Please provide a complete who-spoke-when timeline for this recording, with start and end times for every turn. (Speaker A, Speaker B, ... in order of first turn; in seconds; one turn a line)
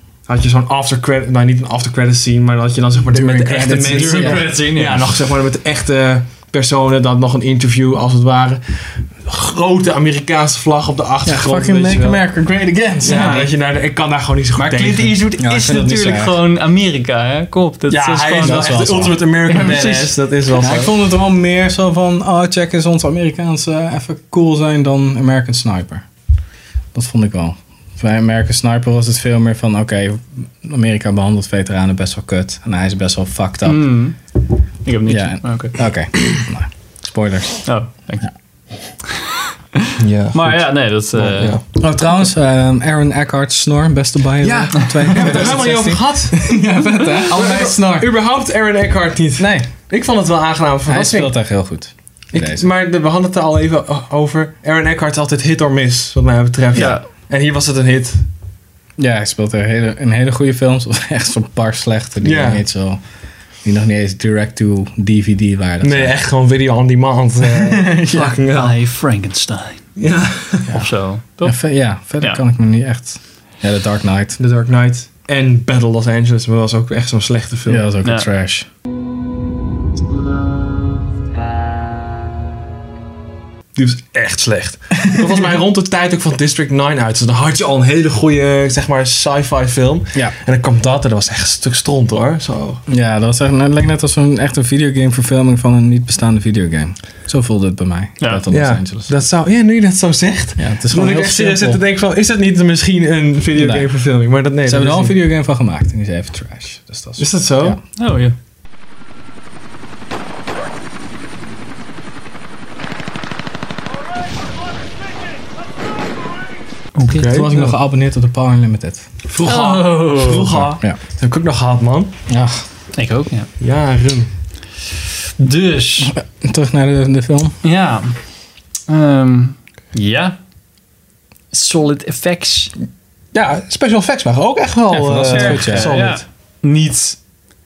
Speaker A: 0.3-12.2
Speaker B: 3.1-4.5
Speaker C: 3.8-5.1
Speaker B: 11.2-13.5
Speaker A: 13.0-15.1
Speaker C: 13.1-13.4
Speaker C: 14.6-18.8
Speaker B: 15.4-16.4
Speaker A: 17.9-20.9
Speaker B: 18.4-19.2
Speaker C: 19.5-20.1
Speaker B: 20.6-26.0
Speaker B: 26.9-34.0
Speaker C: 33.6-34.1
Speaker C: 34.8-35.7
Speaker B: 35.1-37.7
Speaker C: 37.6-38.3
Speaker C: 39.9-41.6
Speaker A: 40.0-41.6
Speaker B: 41.8-48.1
Speaker A: 44.4-46.6
Speaker A: 47.3-51.5
Speaker B: 49.4-49.7
Speaker B: 50.9-52.7
Speaker A: 52.3-58.2
Speaker C: 56.8-57.0
Speaker B: 59.0-63.0
Speaker A: 62.2-62.6
Speaker B: 63.6-66.2
Speaker A: 65.8-68.8
Speaker B: 67.6-68.3
Speaker C: 68.5-69.9
Speaker A: 70.0-70.8
Speaker C: 70.7-71.6
Speaker B: 71.4-74.4
Speaker A: 74.4-77.8
Speaker B: 77.7-78.7
Speaker A: 83.8-92.8
Speaker B: 92.9-99.1
Speaker A: 98.5-105.2
Speaker B: 100.6-101.8
Speaker B: 103.5-103.9
Speaker B: 104.7-107.8
Speaker A: 107.2-107.8
Speaker C: 108.0-108.3
Speaker C: 117.0-117.3
Speaker A: 117.1-117.8
Speaker B: 117.2-119.0
Speaker A: 119.3-122.1
Speaker C: 119.4-120.5
Speaker B: 120.5-121.0
Speaker B: 122.3-122.6
Speaker C: 123.0-123.5
Speaker A: 123.6-124.3
Speaker C: 125.4-126.1
Speaker B: 126.0-127.5
Speaker C: 127.6-128.1
Speaker C: 128.9-130.4
Speaker C: 131.5-132.7
Speaker A: 133.3-136.2
Speaker B: 134.9-136.0
Speaker C: 135.3-137.2